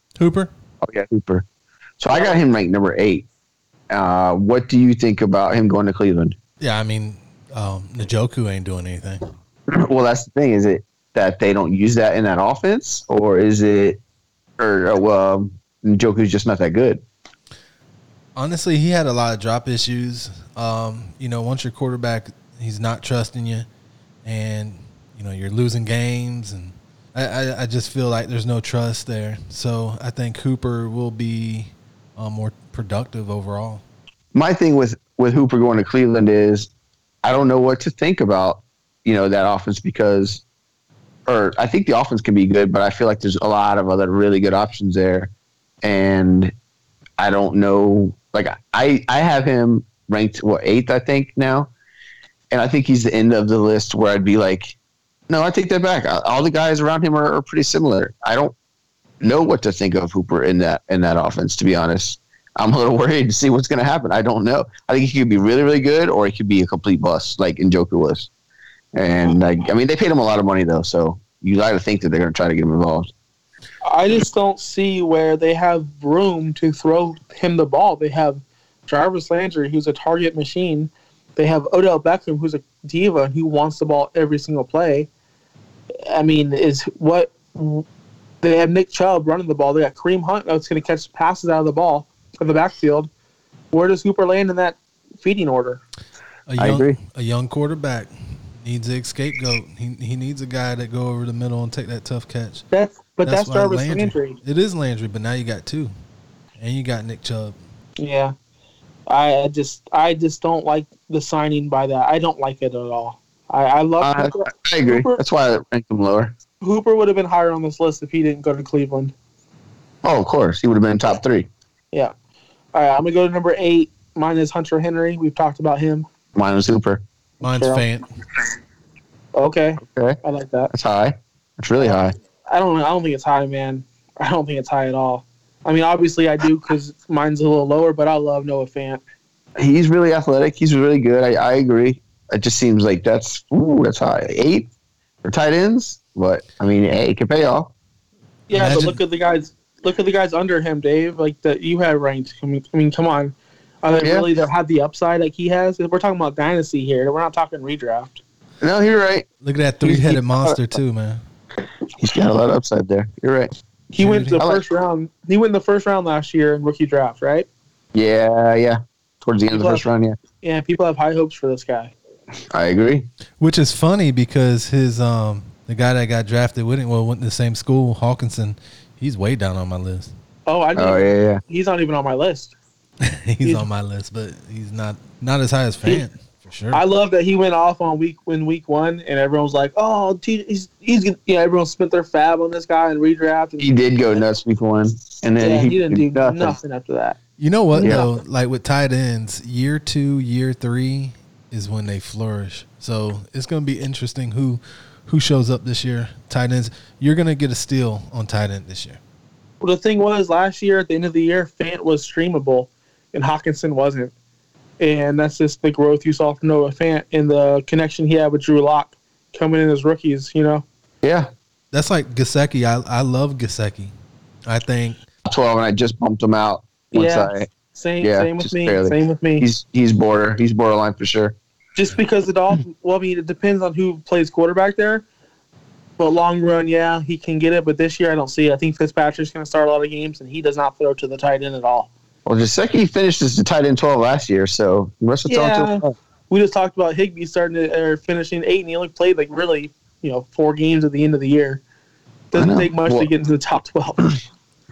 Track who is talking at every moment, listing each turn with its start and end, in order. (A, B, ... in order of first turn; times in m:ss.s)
0:00.2-0:00.5 A
0:00.8-0:01.4 B
0:02.0-0:03.2 B
0:03.9-0:06.4 B
0:06.6-0:09.3 A
0:09.7-0:14.0 B
0:14.6-0:17.0 B
0:18.4-0:23.7 A
0:24.2-0:33.8 A
0:34.3-0:36.7 B
0:37.2-0:40.4 B
0:41.2-0:45.3 B
0:45.8-0:46.5 B
0:47.2-0:51.7 B
0:52.5-0:54.7 B
0:55.3-0:58.5 B
0:59.2-1:08.3 B
1:08.9-1:13.1 B
1:13.8-1:25.1 C
1:26.1-1:27.8 C
1:28.4-1:33.1 C
1:33.7-1:35.8 C
1:36.5-1:42.6 A
1:36.6-1:37.0 B
1:42.7-1:44.4 C
1:43.2-1:45.9 A
1:46.6-1:47.6 A
1:48.0-1:48.3 C
1:49.1-1:55.2 C
1:54.0-1:56.3 B
1:56.6-1:59.1 C
2:00.0-2:01.5 B
2:02.7-2:06.0 C
2:06.3-2:07.0 B
2:07.4-2:08.0 A
2:07.4-2:07.8 C
2:09.3-2:10.7 C
2:09.8-2:10.2 B
2:10.7-2:12.1 B
2:12.5-2:19.0 C
2:19.6-2:24.7 B
2:25.2-2:27.7 B
2:28.5-2:38.2 C
2:28.5-2:29.0 A
2:34.0-2:34.3 B
2:38.6-2:39.2 B
2:39.4-2:41.2 A
2:39.8-2:40.6 B
2:42.0-2:43.5 B
2:43.9-2:47.5 C
2:44.0-2:44.4 A
2:47.9-2:50.2 B
2:49.5-2:49.8 C
2:50.4-2:51.9 C
2:52.5-2:53.1 B
2:53.4-3:00.1 A
3:00.5-3:02.5 C
3:00.8-3:01.4 B
3:03.0-3:06.8 A
3:06.7-3:13.8 C
3:13.6-3:16.6 B
3:15.4-3:17.2 C
3:17.4-3:29.0 A
3:17.7-3:18.1 C
3:29.6-3:34.1 C
3:34.8-3:40.6 C
3:41.0-3:41.3 B
3:41.7-3:43.9 A
3:44.4-3:45.0 A
3:45.2-3:47.5 B
3:46.9-3:49.5 C
3:48.0-3:51.4 B
3:51.8-3:55.0 C
3:56.0-4:01.9 C
4:02.2-4:05.9 B
4:05.3-4:11.6 C
4:12.3-4:14.1 C
4:12.3-4:13.1 B